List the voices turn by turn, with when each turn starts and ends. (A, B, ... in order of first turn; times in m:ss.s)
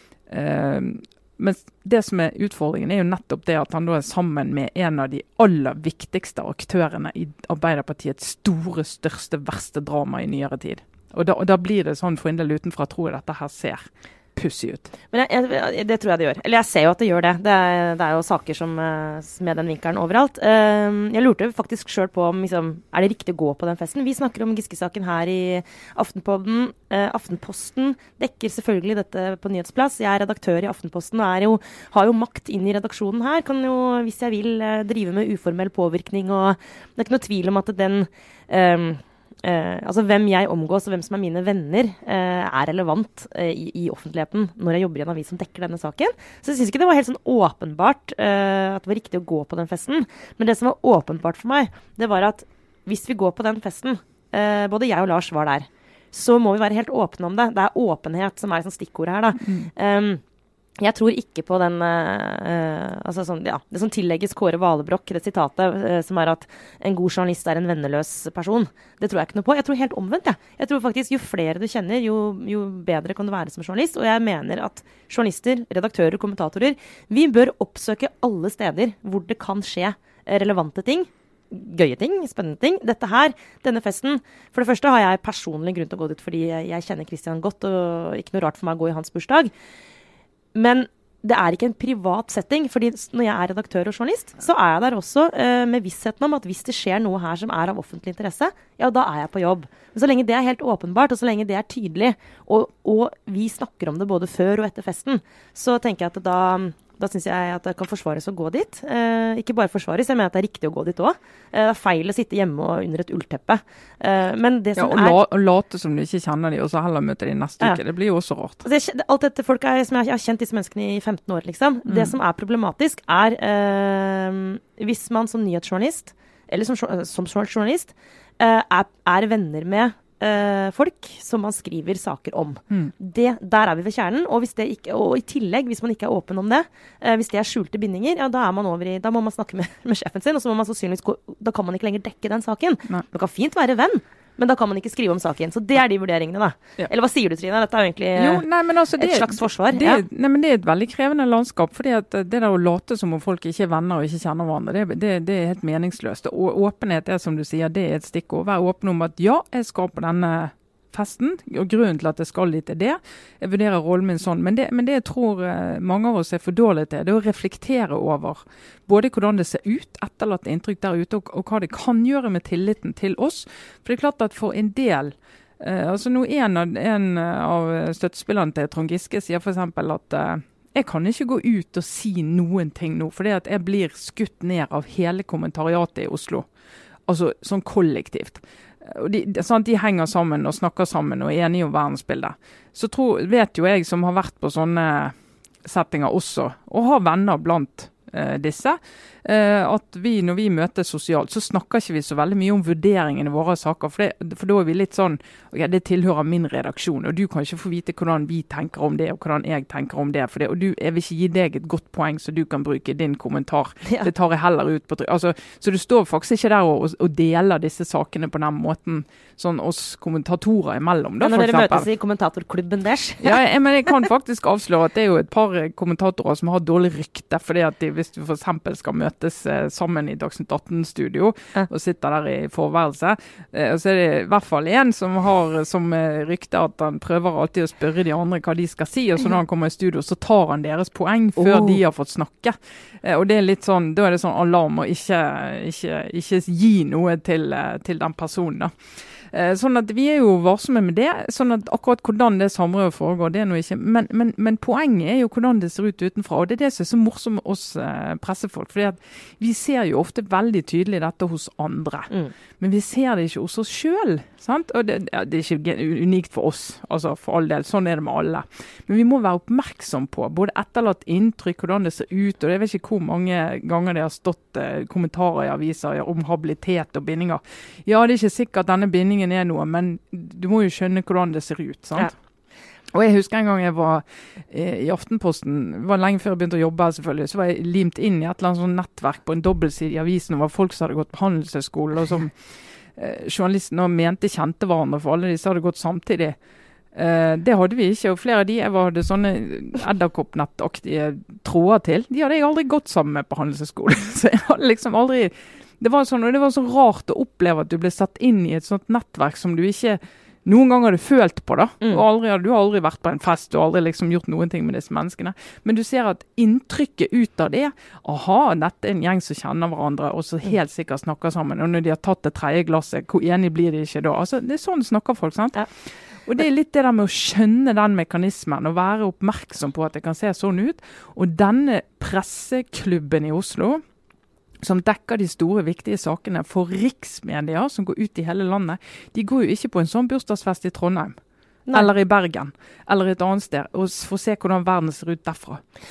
0:00.3-0:13.8 A
0:14.4-0:14.9 A
0:15.1-1:00.2 B
0:59.4-0:59.7 A
1:00.8-1:29.5 B
1:30.5-1:55.2 B
1:54.8-1:58.6 A
1:58.6-2:28.4 B
2:01.9-2:02.1 A
2:28.2-3:06.5 A
2:29.0-2:30.0 B
3:07.1-3:41.9 A
3:41.2-3:43.4 B
3:43.2-4:08.7 A
4:01.4-4:01.8 B
4:09.3-4:42.1 A
4:42.9-4:52.4 A
4:52.9-4:56.4 A
4:56.9-5:33.8 A
5:34.6-5:41.2 A
5:41.7-5:45.6 A